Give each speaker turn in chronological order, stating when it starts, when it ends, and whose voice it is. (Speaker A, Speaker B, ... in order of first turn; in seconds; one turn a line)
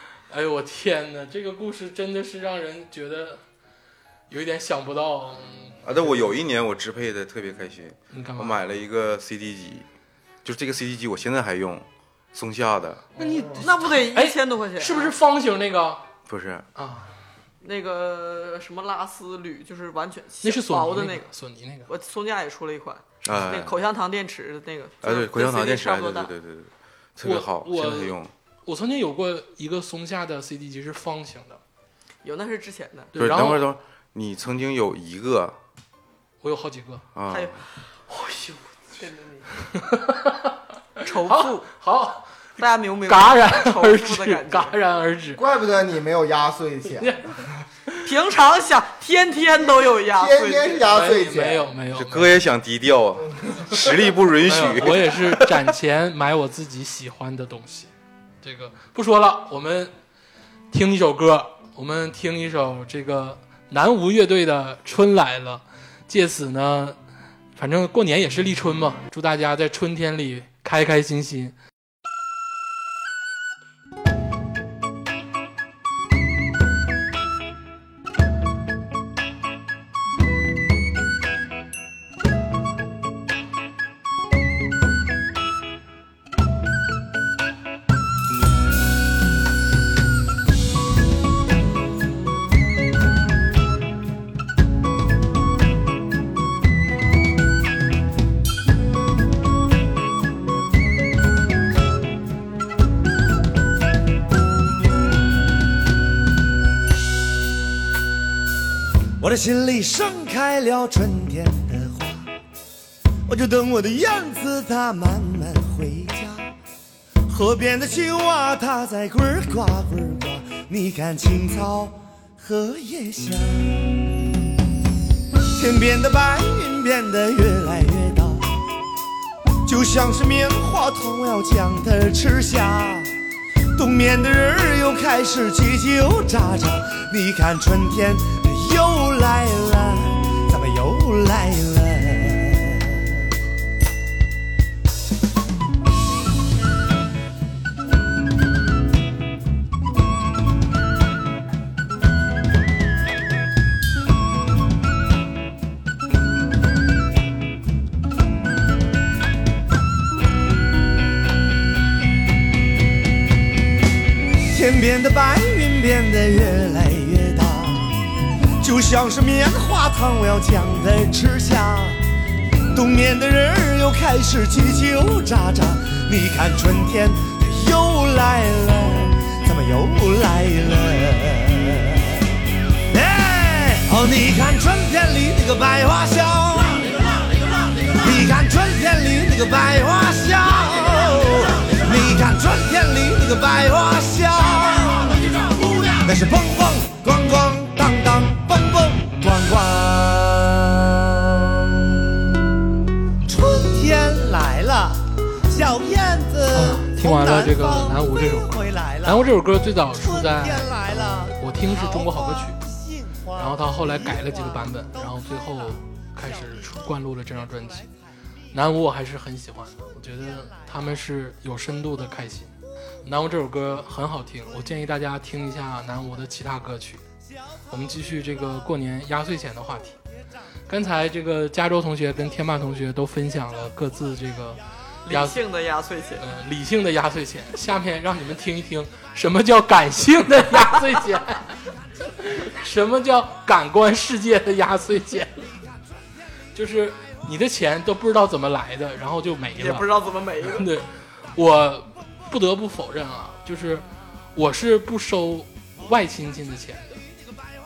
Speaker A: 0.3-3.4
Speaker A: 4.3-5.8
Speaker B: 5.8-9.8
Speaker A: 8.1-8.6
Speaker B: 10.4-13.1
Speaker A: 13.2-16.1
Speaker C: 13.2-13.7
Speaker D: 13.6-15.1
Speaker B: 16.3-16.7
Speaker A: 16.7-17.1
Speaker D: 17.6-21.3
Speaker A: 20.4-21.9
Speaker D: 21.9-26.3
Speaker B: 23.2-23.8
Speaker B: 25.0-28.3
Speaker A: 27.2-31.6
Speaker D: 32.2-33.1
Speaker A: 33.1-33.7
Speaker B: 33.1-35.5
Speaker A: 36.4-37.0
Speaker B: 37.1-37.5
Speaker D: 37.3-37.7
Speaker A: 38.1-38.7
Speaker D: 39.0-39.5
Speaker A: 39.6-45.4
Speaker D: 41.0-41.7
Speaker D: 42.6-44.8
Speaker C: 45.4-47.5
Speaker A: 47.0-48.0
Speaker D: 48.0-50.9
Speaker C: 49.9-51.7
Speaker A: 50.9-52.4
Speaker B: 51.9-55.6
Speaker C: 53.4-53.8
Speaker A: 54.4-57.9
Speaker A: 58.4-59.9
Speaker A: 60.7-67.0
Speaker A: 67.5-71.5
Speaker E: 109.2-112.3
Speaker E: 113.3-116.5
Speaker E: 117.3-124.1
Speaker E: 125.5-128.5
Speaker E: 129.6-133.1
Speaker E: 133.7-143.2
Speaker E: 164.4-167.9
Speaker E: 168.6-172.0
Speaker E: 172.7-182.2
Speaker E: 182.9-187.2
Speaker E: 187.8-202.2
Speaker E: 203.2-209.3
Speaker A: 206.5-212.6
Speaker E: 210.0-215.2
Speaker A: 213.3-217.9
Speaker A: 218.5-227.0
Speaker A: 227.7-230.0
Speaker A: 230.7-235.4
Speaker D: 235.0-236.2
Speaker A: 236.2-245.4
Speaker A: 246.5-249.9
Speaker D: 249.6-250.7
Speaker A: 250.4-257.0